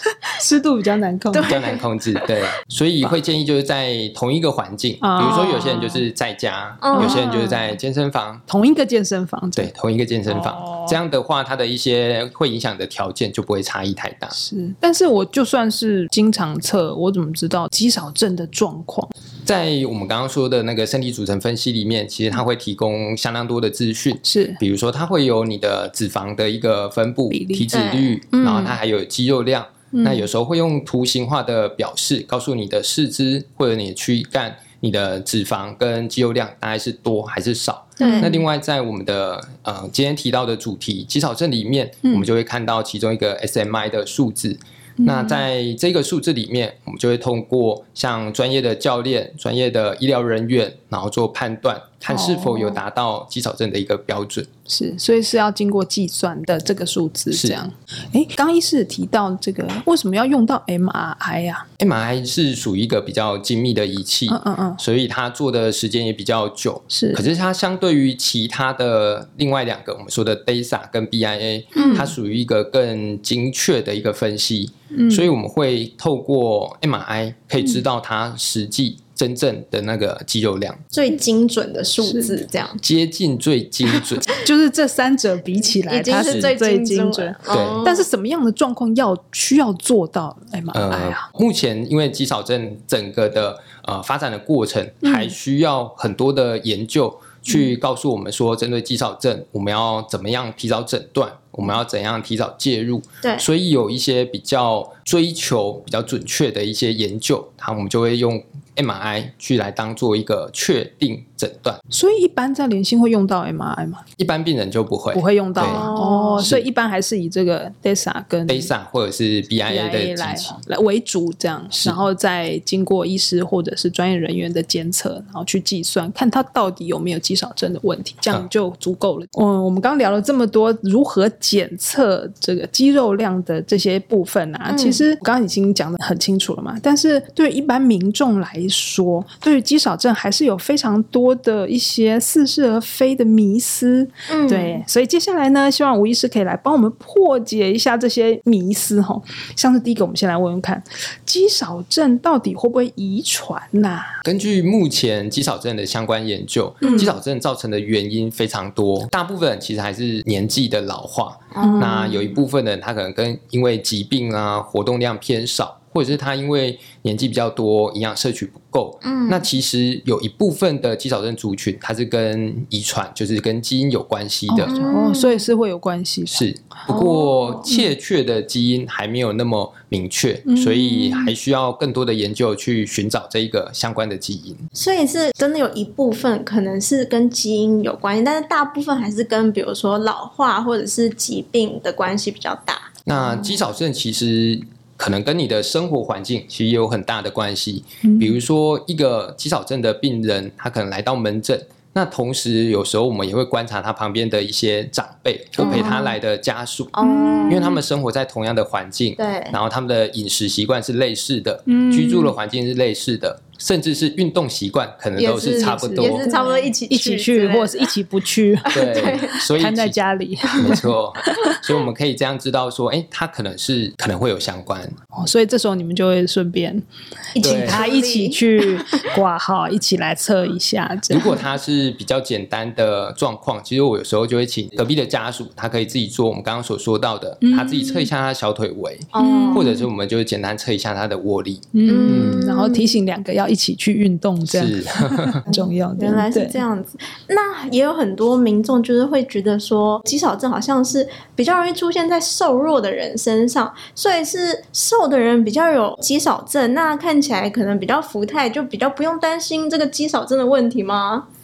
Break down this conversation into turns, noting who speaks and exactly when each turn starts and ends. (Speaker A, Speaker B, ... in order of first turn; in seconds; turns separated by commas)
Speaker A: 0.3-1.6, Speaker B: 1.3-1.8, Speaker C: 1.5-8.4, Speaker A: 5.0-6.0, Speaker B: 5.2-5.6, Speaker B: 6.8-7.3, Speaker A: 7.0-7.8, Speaker A: 8.5-9.7, Speaker C: 9.6-14.3, Speaker A: 10.3-11.0, Speaker A: 14.3-19.1, Speaker C: 19.5-54.5, Speaker A: 24.2-24.6, Speaker A: 27.3-27.7, Speaker B: 27.7-28.8, Speaker A: 29.9-30.3, Speaker B: 38.0-38.3, Speaker A: 38.0-38.4, Speaker A: 45.0-45.5, Speaker A: 52.1-52.8, Speaker A: 54.7-61.7, Speaker C: 57.3-57.6, Speaker C: 61.8-80.8, Speaker A: 64.3-64.8, Speaker A: 66.9-67.2, Speaker A: 71.8-72.1, Speaker B: 71.8-72.1, Speaker A: 74.9-75.3, Speaker B: 80.9-82.8, Speaker A: 82.0-82.4, Speaker C: 82.8-84.3, Speaker A: 84.4-91.2, Speaker B: 85.9-88.1, Speaker C: 86.2-86.5, Speaker C: 87.5-87.8, Speaker C: 90.7-111.8, Speaker A: 95.0-95.3, Speaker A: 111.9-114.0, Speaker C: 114.2-115.9, Speaker A: 115.1-118.7, Speaker B: 115.6-116.5, Speaker C: 116.4-116.7, Speaker C: 118.5-120.6, Speaker A: 119.7-154.2, Speaker C: 121.7-122.0, Speaker B: 134.7-135.1, Speaker B: 144.3-144.8, Speaker C: 154.2-174.8, Speaker A: 156.8-157.2, Speaker B: 161.6-162.0, Speaker A: 161.6-162.4, Speaker B: 169.0-169.5, Speaker A: 174.5-176.5, Speaker B: 174.7-175.5, Speaker C: 176.3-184.6, Speaker B: 176.9-177.7, Speaker A: 180.5-181.3, Speaker B: 184.8-192.9, Speaker C: 193.1-206.9, Speaker A: 198.0-198.3, Speaker B: 205.6-206.1, Speaker A: 205.6-206.1, Speaker B: 206.9-207.7, Speaker A: 207.0-207.8, Speaker C: 207.5-216.4, Speaker B: 209.2-209.6, Speaker A: 211.7-212.3, Speaker B: 215.2-217.9, Speaker A: 215.4-218.7, Speaker B: 218.7-219.4, Speaker C: 218.7-220.0, Speaker A: 219.6-221.5, Speaker C: 220.6-224.9, Speaker A: 225.2-226.8, Speaker B: 227.3-228.8, Speaker C: 227.4-227.8, Speaker A: 227.5-231.4, Speaker C: 231.1-242.4, Speaker A: 237.4-238.1, Speaker B: 239.1-239.7, Speaker A: 239.2-239.9, Speaker A: 241.7-246.6, Speaker B: 241.8-243.0, Speaker C: 244.5-245.4, Speaker B: 246.0-261.3